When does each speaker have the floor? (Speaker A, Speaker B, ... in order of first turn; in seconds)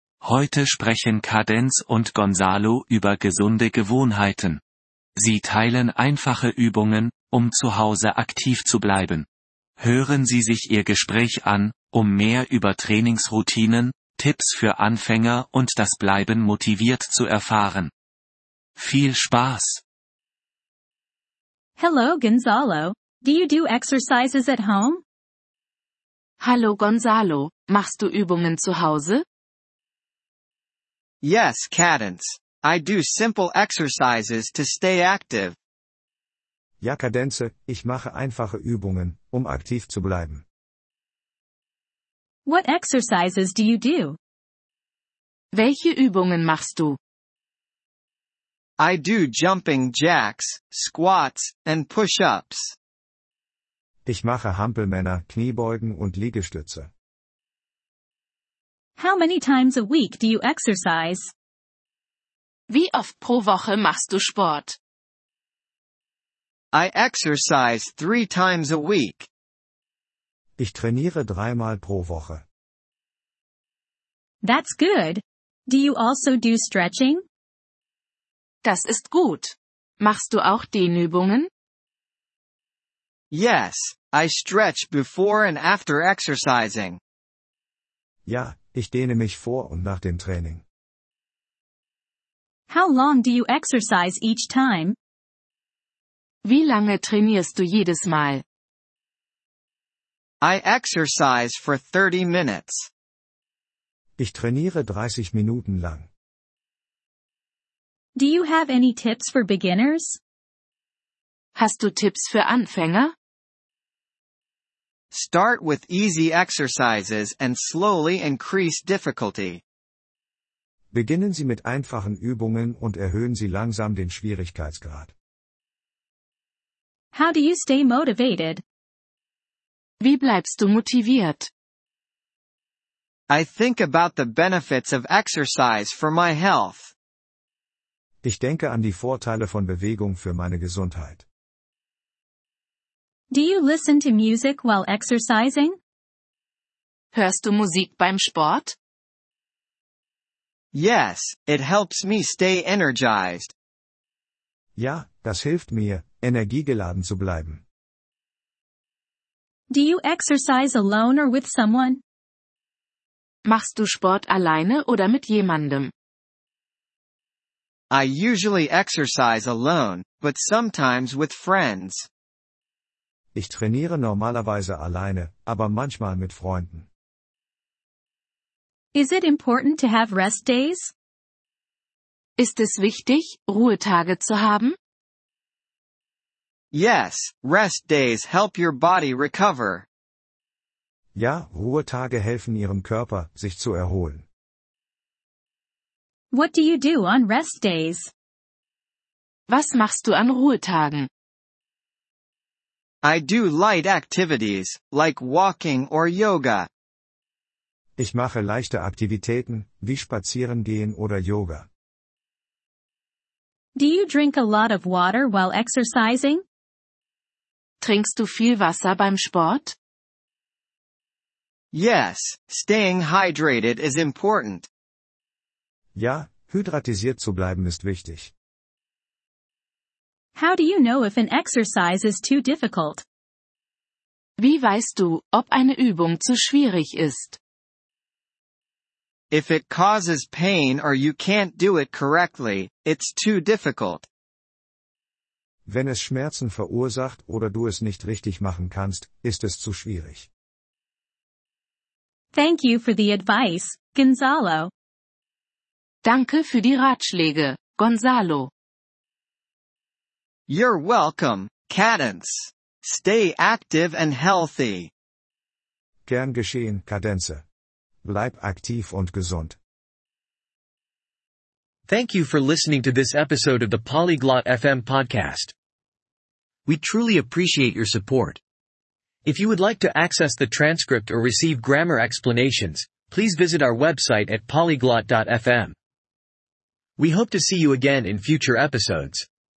Speaker A: 0.2-4.6, 5.2-9.3, 9.8-17.9, 18.8-19.8
Speaker B: 21.8-25.0, 42.5-44.2, 59.0-61.3, 74.4-77.2, 92.7-95.0, 108.2-110.2, 127.1-128.6, 143.3-145.8, 159.7-162.0, 178.9-180.9, 196.3-198.1, 213.8-216.4, 230.4-233.1, 252.3-254.7
Speaker C: 26.4-29.2, 45.5-47.0, 62.7-64.8, 78.6-81.5, 96.4-98.4, 111.5-113.1, 130.0-131.5, 147.1-148.8, 163.4-165.9, 182.4-184.8, 199.5-201.1, 217.8-219.8, 234.4-237.4, 256.0-258.5
Speaker D: 31.2-35.5, 48.8-52.8, 66.7-69.3, 83.3-87.0, 100.4-102.9, 115.1-119.6, 133.3-136.9, 150.7-153.5, 167.9-172.1, 186.7-189.9, 203.0-206.7, 221.7-224.7, 239.3-244.1, 260.5-264.9
Speaker E: 36.8-40.4, 54.1-56.9, 70.6-72.4, 88.3-90.6, 104.2-106.1, 120.9-125.1, 138.2-141.2, 154.8-157.6, 173.3-176.9, 191.2-194.2, 208.0-211.7, 226.0-228.3, 245.7-250.3, 266.1-267.4, 268.0-269.6
Speaker F: 271.9-275.5, 276.7-278.4, 279.2-285.8, 287.0-289.3